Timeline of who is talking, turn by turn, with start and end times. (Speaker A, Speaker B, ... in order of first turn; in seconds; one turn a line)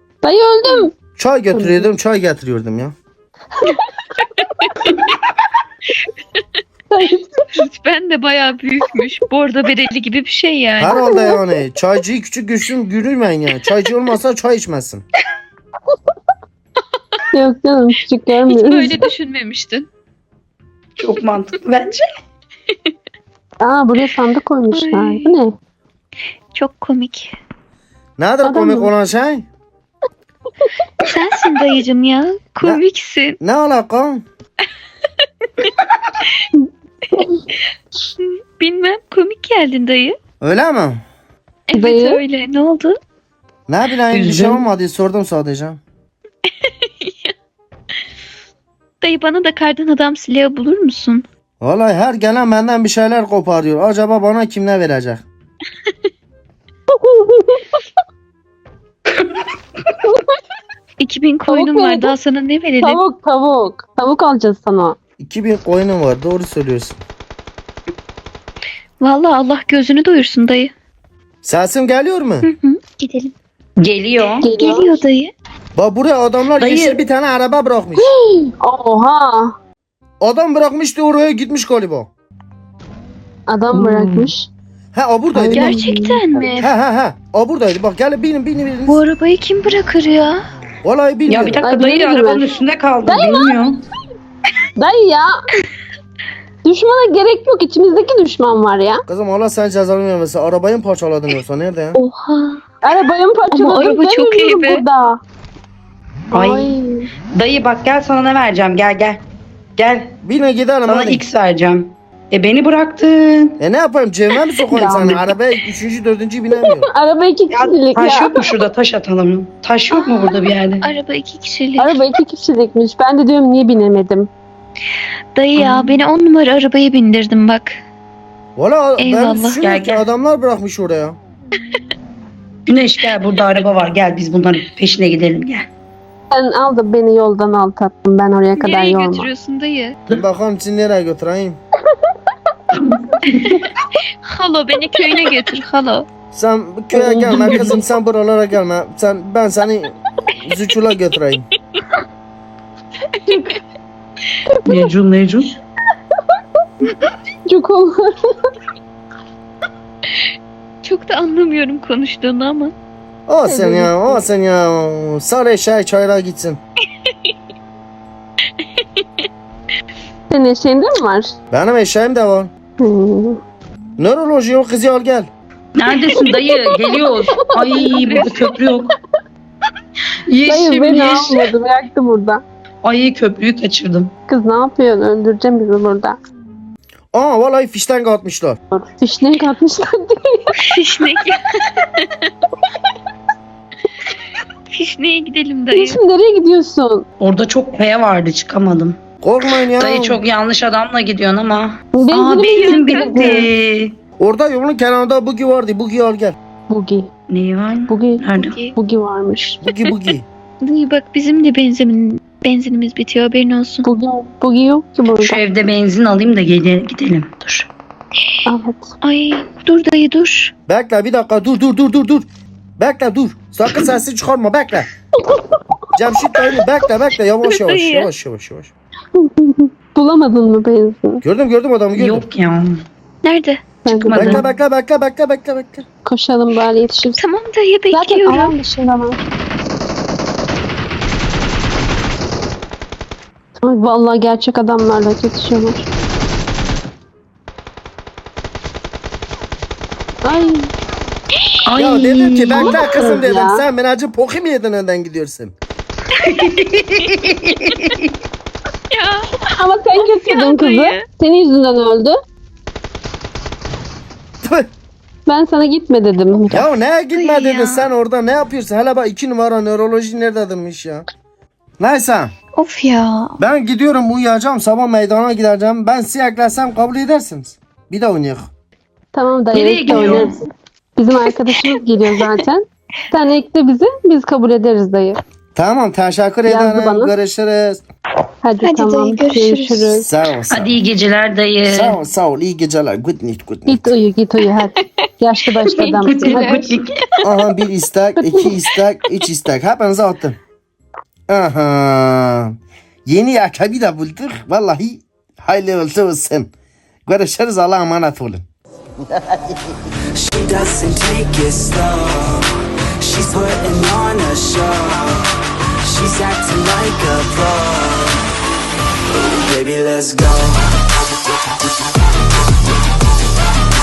Speaker A: 0.2-0.9
Speaker B: 1.2-2.9
Speaker A: 1.6-1.9
Speaker C: 4.4-4.7
Speaker A: 6.9-7.4
Speaker C: 7.5-11.1
Speaker B: 10.8-15.0
Speaker A: 10.9-11.4
Speaker A: 17.3-19.0
Speaker C: 18.5-19.9
Speaker D: 21.0-22.1
Speaker A: 23.6-25.6
Speaker C: 24.7-25.4
Speaker C: 26.5-27.4
Speaker B: 28.2-29.5
Speaker A: 28.4-28.9
Speaker C: 31.0-33.4
Speaker B: 33.4-34.2
Speaker C: 38.2-40.2
Speaker B: 40.4-41.0
Speaker C: 41.7-43.0
Speaker A: 41.7-42.2
Speaker B: 43.7-45.8
Speaker D: 44.1-44.6
Speaker C: 46.5-47.3
Speaker C: 49.0-51.2
Speaker B: 51.6-55.2
Speaker A: 56.9-57.6
Speaker D: 59.1-59.4
Speaker C: 61.0-63.0
Speaker A: 61.5-62.1
Speaker A: 62.8-65.0
Speaker B: 65.2-67.0
Speaker C: 69.0-70.7
Speaker B: 71.4-72.5
Speaker C: 72.4-73.3
Speaker D: 73.8-74.5
Speaker A: 74.4-75.0
Speaker C: 74.6-75.3
Speaker B: 75.8-78.1
Speaker D: 76.6-77.0
Speaker A: 78.0-79.5
Speaker B: 80.2-82.1
Speaker A: 83.5-84.5
Speaker D: 83.7-84.3
Speaker B: 84.9-85.8
Speaker A: 85.3-86.5
Speaker C: 85.5-86.7
Speaker B: 86.6-89.0
Speaker C: 88.9-90.5
Speaker B: 90.8-91.6
Speaker D: 91.3-93.8
Speaker A: 91.6-92.4
Speaker A: 93.1-93.6
Speaker A: 94.8-95.5
Speaker A: 96.6-99.0
Speaker B: 99.1-102.0
Speaker C: 101.9-102.6
Speaker A: 102.8-105.2
Speaker C: 103.5-104.8
Speaker A: 106.3-107.1
Speaker D: 106.3-106.8
Speaker D: 107.3-109.2
Speaker D: 109.8-110.2
Speaker B: 110.2-111.2
Speaker D: 110.9-113.6
Speaker B: 113.6-116.9
Speaker A: 114.7-115.3
Speaker A: 116.6-118.5
Speaker D: 117.5-120.9
Speaker C: 119.9-122.0
Speaker A: 121.8-124.3
Speaker C: 125.3-127.8
Speaker B: 128.6-131.2
Speaker C: 129.0-129.6
Speaker D: 129.6-130.0
Speaker D: 132.7-135.7
Speaker A: 136.3-139.3
Speaker C: 138.6-140.0
Speaker B: 140.1-141.6
Speaker D: 142.7-143.6
Speaker C: 143.9-146.1
Speaker B: 146.3-151.4
Speaker A: 146.9-147.8
Speaker D: 147.3-147.8
Speaker A: 154.6-154.9
Speaker D: 154.7-155.5
Speaker A: 157.5-158.5
Speaker C: 160.8-162.7
Speaker B: 163.3-166.6
Speaker A: 163.5-164.2
Speaker C: 168.6-169.3
Speaker A: 170.3-171.3
Speaker B: 171.5-172.5
Speaker A: 172.8-173.4
Speaker B: 174.0-175.3
Speaker D: 175.8-178.9
Speaker A: 176.1-178.6
Speaker D: 180.3-181.5
Speaker A: 180.4-182.4
Speaker D: 182.8-184.1
Speaker A: 184.3-186.2
Speaker B: 187.1-188.6
Speaker A: 188.7-190.6
Speaker C: 190.6-192.3
Speaker C: 194.7-196.0
Speaker A: 195.7-197.1
Speaker D: 197.2-199.0
Speaker B: 199.2-200.2
Speaker D: 199.8-204.0
Speaker A: 201.9-203.5
Speaker C: 202.4-203.5
Speaker B: 204.2-206.4
Speaker A: 206.7-207.1
Speaker D: 207.3-208.6
Speaker A: 207.9-209.6
Speaker C: 208.4-208.8
Speaker B: 209.6-210.3
Speaker C: 210.6-213.9
Speaker A: 213.8-215.4
Speaker D: 215.1-217.7
Speaker A: 218.4-218.9
Speaker C: 219.0-220.5
Speaker B: 220.7-222.3
Speaker B: 222.8-224.9
Speaker B: 225.9-228.7
Speaker C: 227.5-228.1
Speaker A: 229.1-231.2
Speaker B: 231.2-232.3
Speaker D: 231.9-232.8
Speaker C: 233.2-234.4
Speaker A: 233.9-234.4
Speaker B: 233.9-235.9
Speaker D: 234.2-234.4
Speaker A: 236.1-237.2
Speaker C: 237.2-238.5
Speaker A: 237.9-239.2
Speaker A: 243.6-245.9
Speaker A: 250.2-250.7
Speaker D: 251.7-252.8
Speaker B: 251.8-255.5
Speaker A: 252.6-253.6
Speaker D: 256.2-258.1
Speaker C: 258.9-259.4
Speaker A: 259.4-262.1
Speaker C: 259.9-261.0
Speaker B: 264.4-264.7
Speaker A: 265.3-266.7
Speaker B: 266.5-271.1
Speaker C: 267.1-267.9
Speaker B: 271.8-272.3
Speaker C: 272.6-273.4
Speaker B: 273.4-278.5
Speaker A: 279.1-285.2
Speaker D: 279.5-280.4
Speaker B: 285.6-287.8
Speaker A: 286.5-287.1
Speaker A: 288.4-290.1
Speaker C: 288.6-289.9
Speaker B: 290.0-290.8
Speaker D: 290.5-292.0
Speaker B: 291.6-293.9
Speaker A: 293.7-296.7
Speaker D: 295.6-297.0
Speaker C: 295.7-296.7
Speaker B: 297.2-300.4
Speaker A: 298.2-298.5
Speaker B: 301.3-306.5
Speaker B: 307.1-308.4
Speaker B: 309.1-309.8
Speaker E: 310.1-315.3
Speaker E: 315.8-318.2
Speaker E: 319.1-320.7